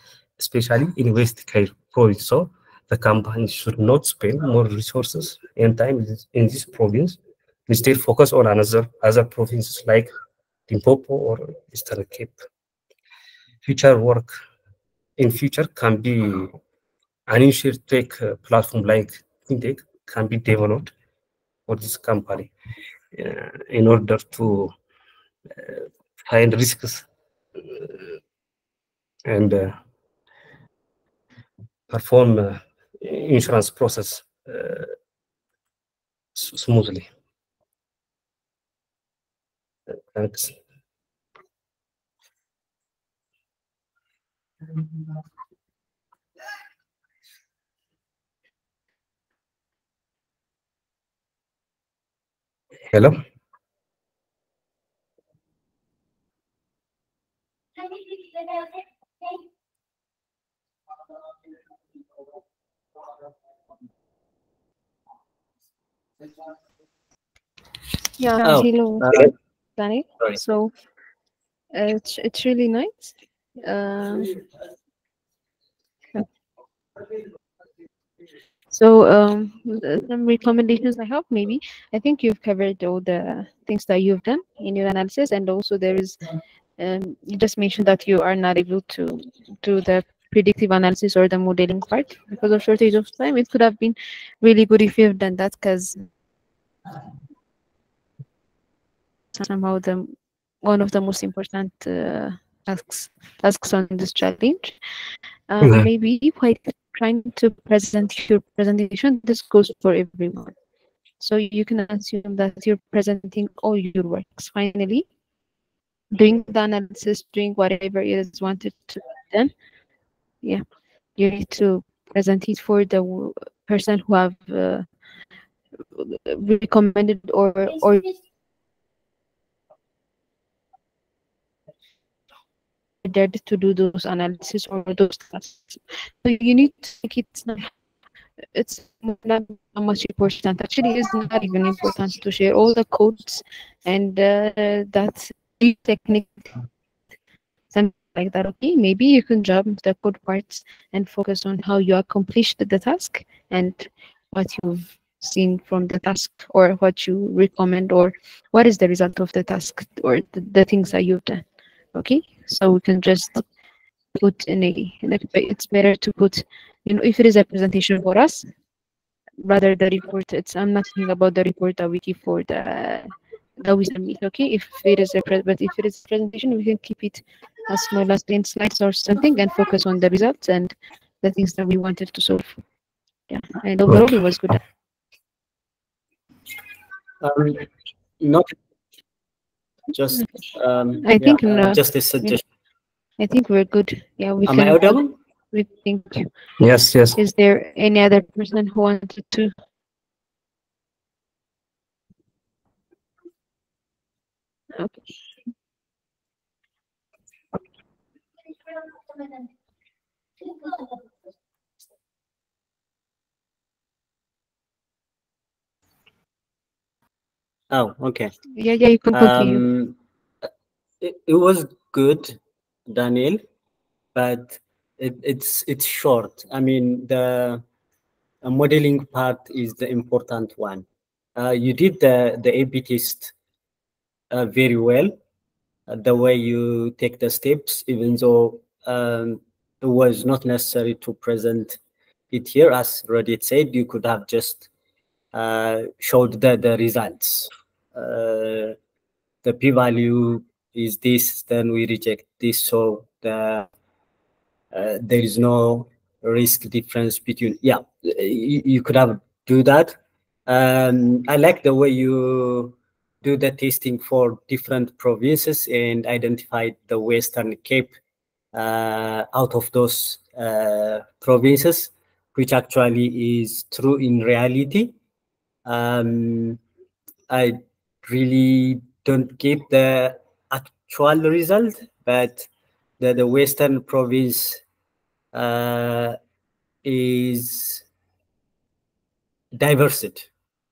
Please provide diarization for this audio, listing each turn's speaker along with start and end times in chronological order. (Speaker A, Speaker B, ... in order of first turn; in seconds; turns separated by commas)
Speaker A: 0.4-10.1, Speaker A: 10.7-12.4, Speaker A: 13.6-14.4, Speaker A: 15.2-16.6, Speaker A: 17.3-20.9, Speaker A: 21.7-22.5, Speaker A: 23.1-24.7, Speaker A: 25.6-27.1, Speaker A: 27.6-28.0, Speaker A: 29.3-29.8, Speaker A: 31.9-34.9, Speaker A: 36.4-37.1, Speaker A: 40.1-40.6, Speaker A: 52.9-53.2, Speaker B: 68.2-69.2, Speaker C: 68.4-69.3, Speaker B: 69.8-70.7, Speaker B: 71.7-74.3, Speaker B: 78.7-86.2, Speaker B: 86.8-96.0, Speaker B: 99.3-104.8, Speaker B: 105.5-110.5, Speaker A: 105.6-105.9, Speaker B: 111.2-115.0, Speaker B: 116.1-119.5, Speaker B: 121.2-124.9, Speaker B: 126.0-128.1, Speaker B: 133.0-137.7, Speaker B: 138.5-146.5, Speaker B: 147.7-163.4, Speaker B: 164.2-168.5, Speaker B: 169.4-182.6, Speaker B: 183.3-184.6, Speaker C: 187.2-187.7, Speaker C: 188.2-188.5, Speaker C: 189.9-192.4, Speaker B: 191.0-192.4, Speaker B: 193.2-195.0, Speaker C: 194.4-195.2, Speaker B: 195.5-196.3, Speaker A: 196.6-197.2, Speaker B: 197.2-199.5, Speaker B: 204.7-205.1, Speaker C: 217.7-218.3, Speaker B: 218.6-219.6, Speaker C: 219.1-220.0, Speaker C: 221.0-223.4, Speaker C: 224.2-227.6, Speaker C: 228.4-233.3, Speaker C: 234.3-235.2, Speaker C: 235.9-241.8, Speaker C: 242.3-244.7, Speaker C: 245.3-248.8, Speaker C: 249.4-253.7, Speaker C: 254.7-268.0, Speaker C: 268.5-275.0, Speaker C: 275.7-276.6, Speaker C: 277.3-282.5, Speaker C: 283.0-284.6, Speaker C: 285.3-286.2, Speaker C: 286.8-287.8, Speaker C: 289.5-290.3